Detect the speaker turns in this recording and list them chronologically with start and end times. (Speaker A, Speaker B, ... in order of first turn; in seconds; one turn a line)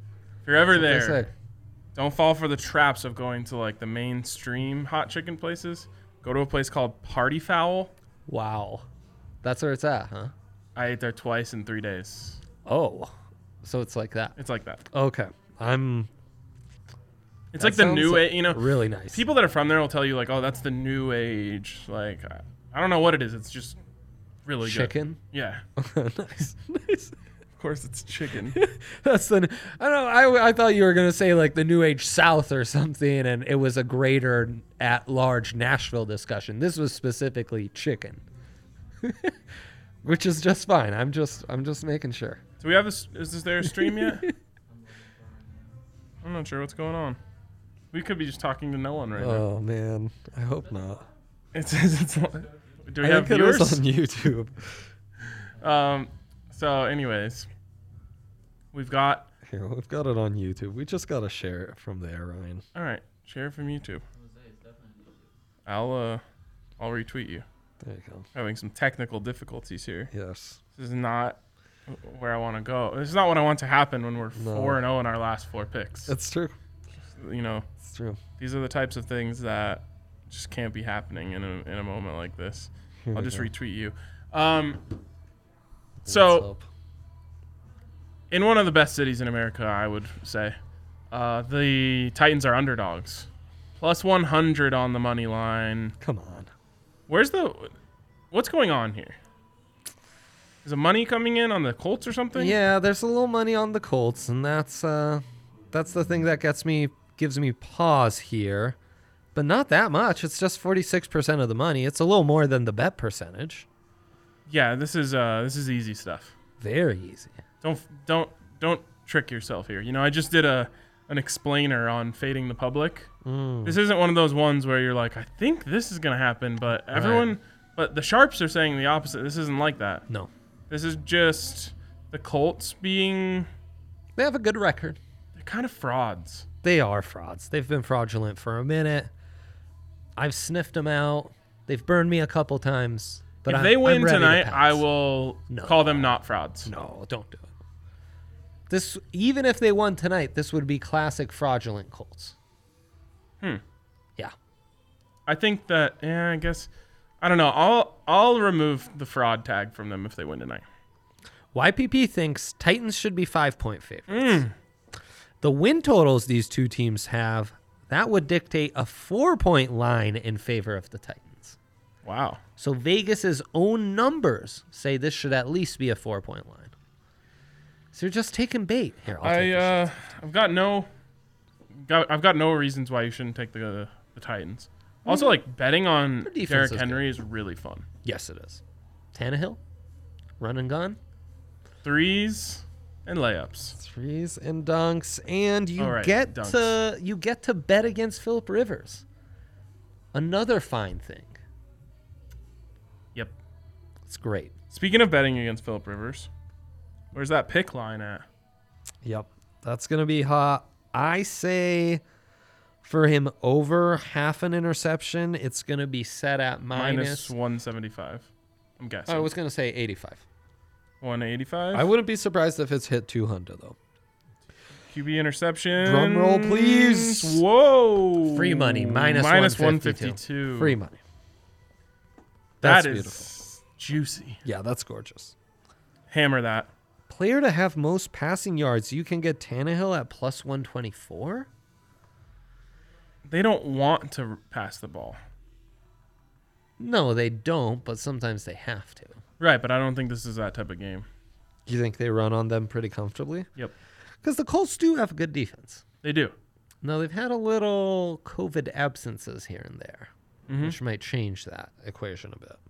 Speaker A: 0.5-1.2
Speaker B: 0.7-1.3
Speaker A: 1.9-7.9
Speaker B: 8.3-8.9
Speaker B: 9.4-10.3
Speaker A: 10.8-12.4
Speaker B: 12.7-14.4
Speaker A: 14.4-14.8
Speaker B: 14.9-16.1
Speaker A: 17.5-23.8
Speaker B: 17.6-19.2
Speaker A: 24.5-25.6
Speaker B: 24.6-25.2
Speaker B: 25.8-27.1
Speaker A: 27.5-28.6
Speaker B: 28.5-38.2
Speaker B: 39.0-39.4
Speaker B: 40.0-42.4
Speaker A: 42.6-44.3
Speaker B: 43.6-44.3
Speaker C: 44.6-45.8
Speaker A: 46.2-47.2
Speaker A: 47.9-49.4
Speaker B: 49.2-51.1
Speaker A: 51.5-53.8
Speaker B: 53.0-54.9
Speaker A: 55.6-57.5
Speaker A: 58.7-59.3
Speaker B: 59.5-62.6
Speaker A: 62.7-64.0
Speaker C: 64.1-65.4
Speaker A: 65.7-66.2
Speaker A: 66.8-67.5
Speaker B: 67.8-68.3
Speaker A: 68.3-70.1
Speaker B: 70.1-70.6
Speaker A: 70.8-76.1
Speaker B: 74.4-74.8
Speaker B: 76.1-76.6
Speaker A: 77.2-77.7
Speaker B: 77.8-78.2
Speaker A: 78.4-84.8
Speaker B: 83.0-83.5
Speaker B: 86.0-86.7
Speaker A: 86.1-86.5
Speaker A: 88.3-90.6
Speaker A: 91.1-96.0
Speaker B: 96.0-96.5
Speaker A: 97.1-97.7
Speaker A: 98.3-99.2
Speaker A: 100.7-102.6
Speaker B: 102.3-108.8
Speaker B: 109.3-113.7
Speaker A: 114.5-116.3
Speaker B: 116.6-117.4
Speaker A: 117.6-123.1
Speaker B: 123.2-123.8
Speaker A: 123.6-130.1
Speaker B: 126.9-127.3
Speaker A: 130.7-133.5
Speaker B: 134.2-135.0
Speaker A: 135.3-136.5
Speaker B: 136.6-139.1
Speaker B: 140.2-144.8
Speaker A: 143.5-146.7
Speaker B: 145.5-146.1
Speaker B: 146.7-147.5
Speaker B: 148.7-152.3
Speaker A: 155.3-156.7
Speaker A: 157.2-160.6
Speaker B: 161.5-164.4
Speaker A: 164.1-164.5
Speaker B: 165.4-171.6
Speaker A: 172.1-172.4
Speaker B: 172.6-176.7
Speaker B: 177.9-179.9
Speaker A: 179.2-180.9
Speaker A: 181.8-187.9
Speaker B: 185.1-185.4
Speaker B: 186.2-187.0
Speaker B: 188.0-188.6
Speaker B: 189.1-189.6
Speaker B: 190.4-191.0
Speaker A: 191.8-193.8
Speaker B: 193.8-199.0
Speaker A: 195.8-196.7
Speaker B: 200.1-201.4
Speaker B: 204.1-204.6
Speaker A: 204.7-206.3
Speaker A: 207.1-208.3
Speaker B: 209.0-212.0
Speaker B: 212.8-217.3
Speaker A: 216.7-218.3
Speaker A: 218.8-219.3
Speaker B: 219.1-220.2
Speaker A: 221.0-221.9
Speaker B: 221.7-223.8
Speaker A: 224.9-230.8
Speaker B: 225.8-227.4
Speaker B: 228.3-231.0
Speaker B: 232.6-233.3
Speaker A: 232.6-234.4
Speaker B: 234.4-235.3
Speaker A: 236.1-236.7
Speaker B: 237.1-241.5
Speaker A: 243.3-245.2
Speaker B: 246.8-249.2
Speaker A: 249.4-251.1
Speaker B: 251.7-253.5
Speaker B: 254.2-255.8
Speaker A: 256.0-256.3
Speaker B: 256.8-262.6
Speaker A: 260.5-260.8